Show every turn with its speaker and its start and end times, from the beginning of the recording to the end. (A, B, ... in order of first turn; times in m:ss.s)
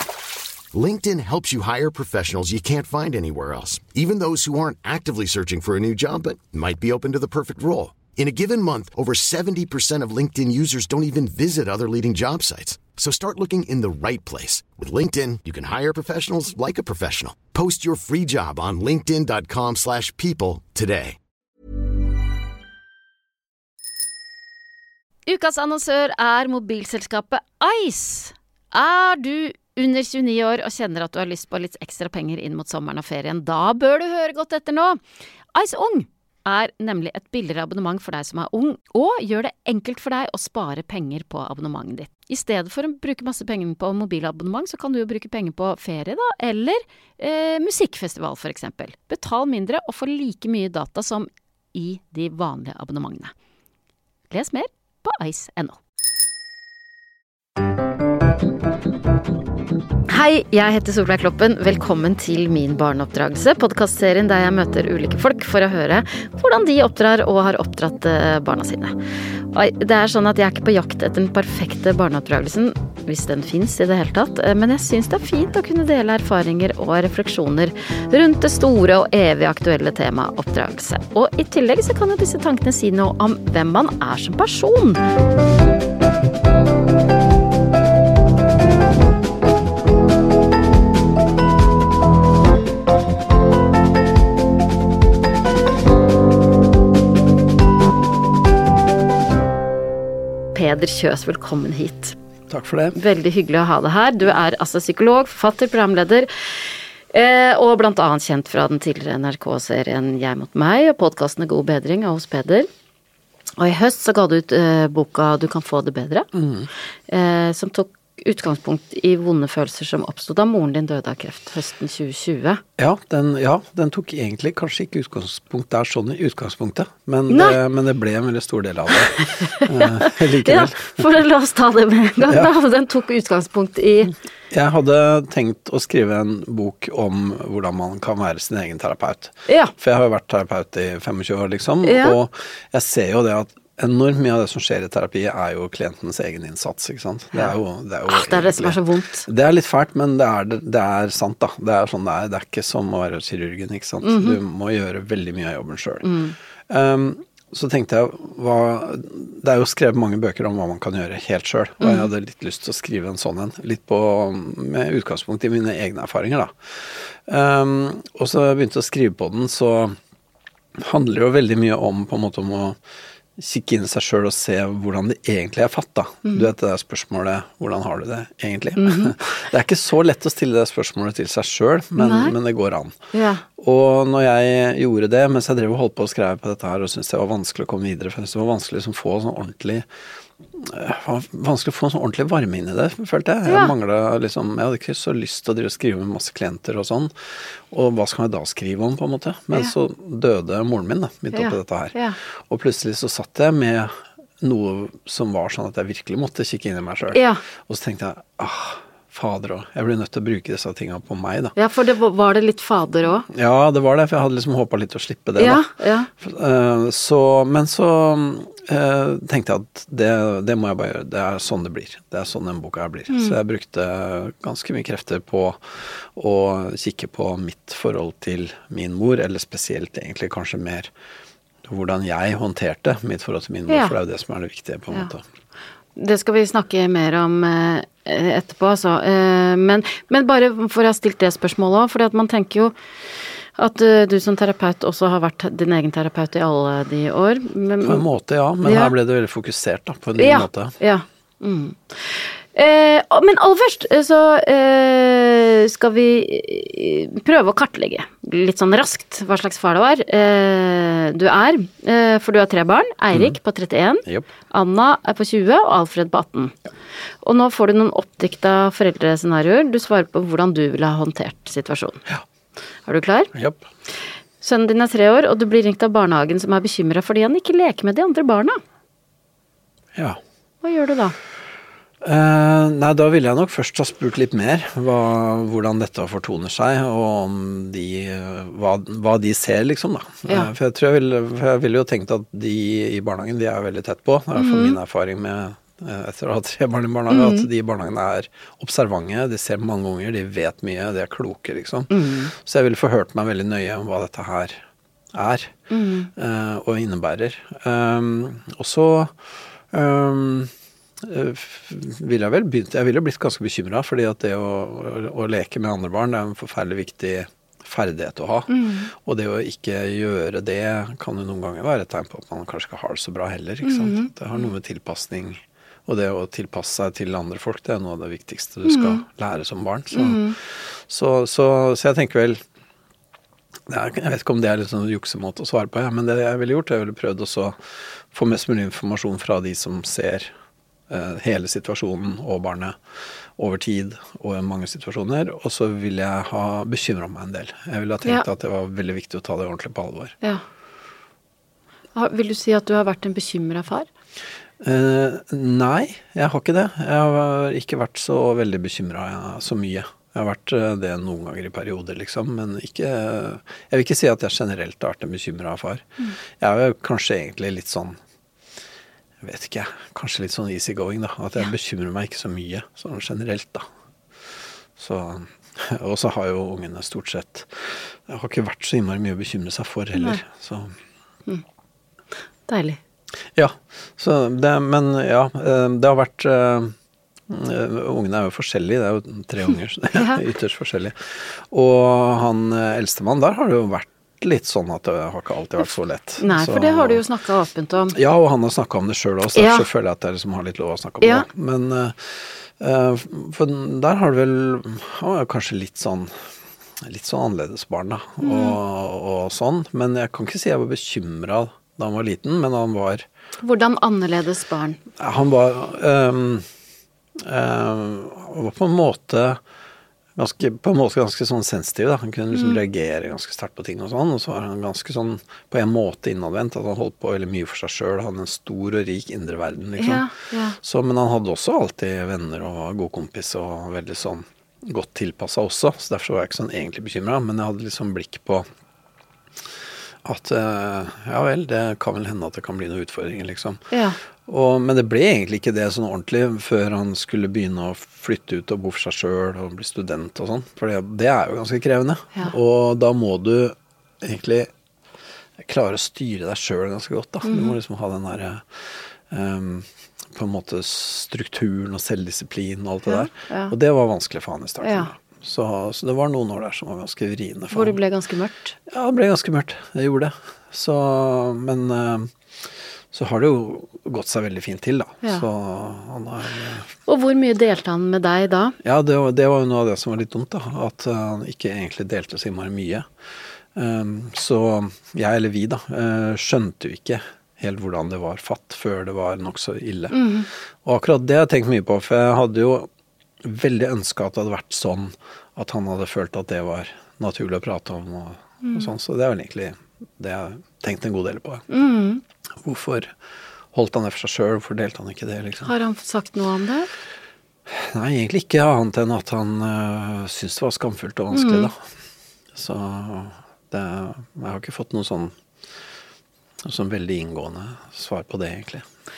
0:00.7-0:21.2 A
0:25.2-0:35.0 B
0:35.5-0:53.3 B
0:54.3-0:55.8 B
1:00.1-1:09.0 B
1:09.5-1:25.0 B
1:40.5-1:42.2 B
1:42.5-1:43.0 C
1:42.9-1:52.7 B
1:53.6-1:56.3 B
1:56.3-1:56.7 C
1:57.1-2:02.6 B
2:02.8-2:11.1 C
2:07.3-2:07.6 B
2:09.2-2:14.1 B
2:12.2-2:12.5 C
2:14.5-2:36.1 C
2:19.5-2:19.7 B
2:21.8-2:22.2 B
2:28.1-2:29.3 B
2:34.0-2:34.4 B
2:36.0-2:36.4 B
2:36.7-2:50.0 C
2:41.8-2:42.1 B
2:50.8-2:52.8 C
2:53.4-3:02.9 C
2:58.8-2:59.2 B
3:02.0-3:02.3 B
3:03.1-3:03.4 B
3:03.6-3:09.9 C
3:10.5-3:31.6 C
3:13.5-3:13.7 B
3:21.3-3:22.2 B
3:27.1-3:27.4 B
3:31.6-3:33.3 B
3:33.3-3:35.6 C
3:35.4-3:36.1 B
3:36.2-3:50.9 C
3:43.1-3:43.4 B
3:51.6-3:55.2 C
3:53.7-3:53.9 B
3:56.0-4:02.7 B
4:03.6-4:08.0 B
4:07.8-4:10.7 C
4:08.6-4:08.9 B
4:10.2-4:26.6 B
4:23.1-4:23.4 C
4:27.2-4:32.0 B
4:32.8-4:33.3 B
4:33.3-4:33.6 C
4:34.4-4:38.6 B
4:39.9-4:40.2 C
4:40.6-4:41.2 B
4:42.0-5:05.5 C
4:54.4-4:54.8 B
4:57.1-4:57.5 B
5:01.9-5:02.3 B
5:05.7-5:06.1 B
5:06.2-5:32.4 C
5:18.5-5:18.9 B
5:23.6-5:24.1 B
5:28.6-5:29.0 B
5:29.9-5:30.4 B
5:33.7-5:37.6 C
5:38.1-5:40.3 C
5:40.9-5:42.8 C
5:43.4-5:50.1 C
5:51.9-5:53.9 B
5:54.6-6:05.8 C
6:06.4-6:08.0 C
6:09.2-6:13.6 C
6:14.8-6:20.7 C
6:22.5-6:22.8 B
6:23.3-6:26.7 C
6:27.3-6:37.0 C
6:30.0-6:30.2 B
6:36.2-6:38.0 B
6:37.9-6:46.3 C
6:39.3-6:39.6 B
6:46.8-6:53.1 C
6:48.2-6:48.6 B
6:53.4-6:54.8 B
6:55.0-6:56.5 C
6:57.2-6:59.4 C
7:00.2-7:10.0 C
7:02.3-7:02.6 B
7:09.8-7:10.6 B
7:10.6-7:18.4 C
7:20.0-7:23.6 C
7:23.7-7:24.0 B
7:24.2-7:34.5 C
7:35.4-7:47.8 C
7:37.2-7:37.6 B
7:42.9-7:43.5 B
7:44.6-7:44.9 B
7:47.5-7:48.5 B
7:48.7-7:56.7 C
7:56.9-7:58.6 B
7:58.6-8:02.9 C
8:03.5-8:10.0 C
8:09.9-8:10.3 B
8:10.6-8:12.7 C
8:13.2-8:21.4 C
8:18.4-8:18.7 B
8:21.5-8:22.0 B
8:22.4-8:22.9 C
8:23.5-8:25.5 C
8:25.4-8:26.7 B
8:27.5-8:31.6 C
8:31.1-8:31.5 B
8:32.3-8:35.1 C
8:36.4-8:38.6 C